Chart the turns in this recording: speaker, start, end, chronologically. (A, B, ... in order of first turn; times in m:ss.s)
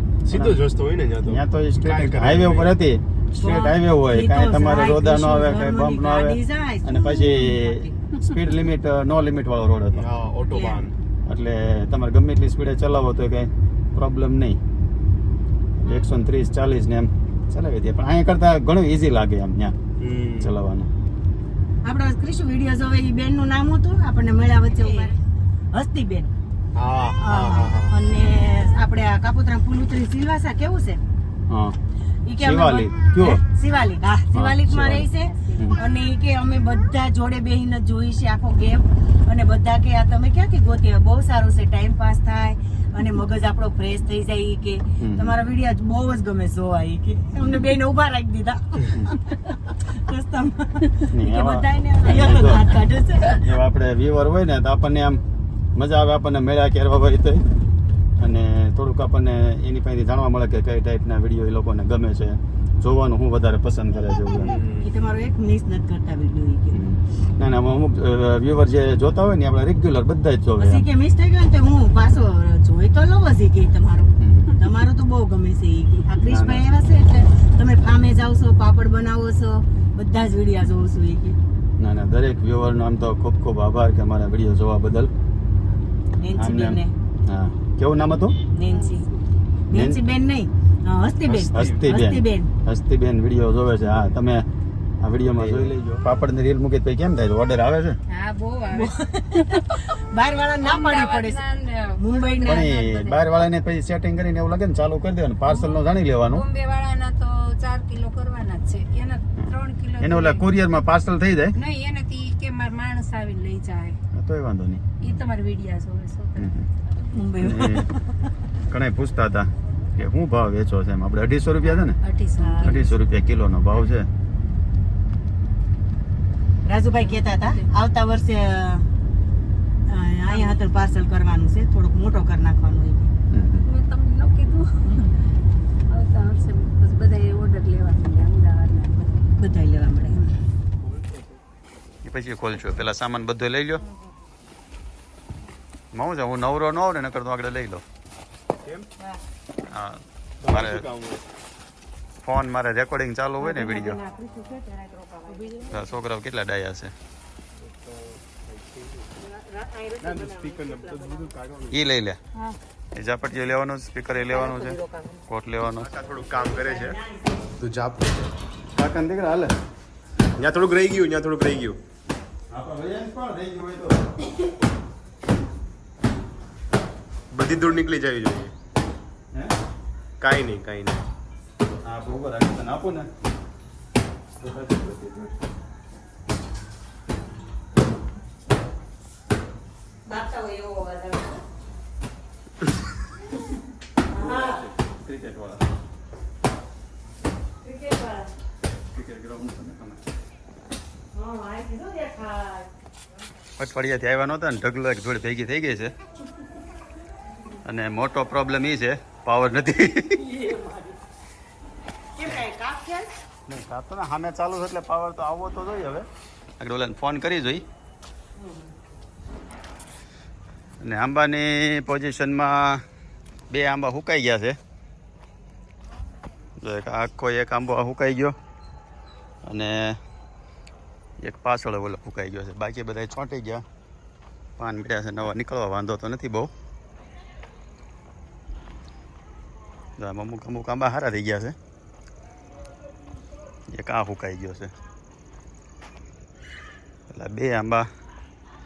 0:00.2-0:02.7 A
0:00.3-0:00.6 B
0:01.2-0:10.1 B
0:03.4-0:08.0 C
0:09.9-0:11.0 A
0:10.5-0:10.9 C
0:11.3-0:14.6 B
0:15.8-0:19.8 B
0:20.0-0:20.5 A
0:20.4-0:20.9 B
0:21.8-0:25.2 C
0:24.8-0:25.1 D
0:25.7-0:26.3 C
0:26.8-0:27.9 A
0:27.2-0:31.0 C
0:31.5-0:31.8 B
0:32.3-0:53.5 C
0:32.4-0:33.4 B
0:34.3-0:35.8 B
0:45.0-0:45.4 B
0:51.1-0:52.8 B
0:53.4-0:55.2 B
0:55.8-0:57.4 B
0:58.2-1:04.5 B
1:04.3-1:04.9 A
1:04.8-1:06.8 C
1:06.7-1:10.9 B
1:10.6-1:21.4 C
1:14.2-1:14.6 B
1:16.2-1:16.7 B
1:21.8-1:25.1 B
1:26.2-1:26.9 C
1:26.4-1:28.4 B
1:28.5-1:29.1 C
1:29.7-1:32.5 C
1:29.7-1:30.0 B
1:31.3-1:34.4 B
1:35.0-1:38.0 B
1:35.2-1:35.7 A
1:38.1-1:39.5 D
1:38.7-1:41.4 C
1:40.6-1:43.3 D
1:42.0-1:42.7 C
1:42.4-1:46.4 B
1:45.5-1:45.8 D
1:46.3-1:50.5 D
1:49.4-1:51.6 B
1:51.6-1:54.0 D
1:54.1-1:55.2 B
1:55.0-1:56.6 D
1:56.4-1:56.7 B
1:57.1-1:58.3 C
1:57.4-1:57.9 B
1:58.7-2:02.0 B
2:02.0-2:02.8 D
2:02.4-2:03.0 C
2:02.6-2:04.1 B
2:06.7-2:08.9 C
2:07.0-2:07.7 D
2:09.9-2:13.1 C
2:10.3-2:10.6 D
2:13.3-2:13.7 B
2:13.6-2:15.2 D
2:15.9-2:19.2 D
2:19.4-2:20.4 C
2:20.8-2:21.4 A
2:22.0-2:23.8 B
2:25.9-2:27.8 B
2:28.6-2:28.9 A
2:29.7-2:30.8 B
2:30.4-2:31.2 A
2:32.2-2:34.0 B
2:33.4-2:35.8 C
2:35.3-2:35.9 D
2:35.7-2:36.9 B
2:37.6-2:39.2 A
2:39.2-2:41.4 C
2:40.0-2:41.8 A
2:41.7-2:42.2 B
2:43.0-2:45.9 B
2:44.3-2:45.2 C
2:45.8-2:47.0 A
2:46.3-2:47.5 C
2:47.6-2:48.3 A
2:48.7-2:49.5 B
2:50.4-2:51.8 A
2:52.5-2:54.1 B
2:57.3-2:58.5 A
3:00.2-3:01.0 A
3:01.8-3:03.1 B
3:04.4-3:05.4 B
3:10.1-3:11.4 C
3:14.1-3:14.6 C
3:14.1-3:15.6 B
3:17.6-3:18.3 C
3:18.9-3:20.0 B
3:21.1-3:22.7 C
3:23.6-3:26.0 B
3:27.6-3:30.2 B
3:30.2-3:31.0 C
3:32.2-3:33.1 C
3:33.5-3:36.1 B
3:36.6-3:37.6 B
3:38.4-3:38.7 C
3:40.8-3:42.8 B
3:43.5-3:44.6 B
3:46.6-3:48.4 B
3:49.4-3:50.0 B
3:51.2-3:53.6 B
3:54.6-3:56.5 B
4:00.0-4:01.6 B
4:03.7-4:04.7 B
4:07.1-4:07.9 B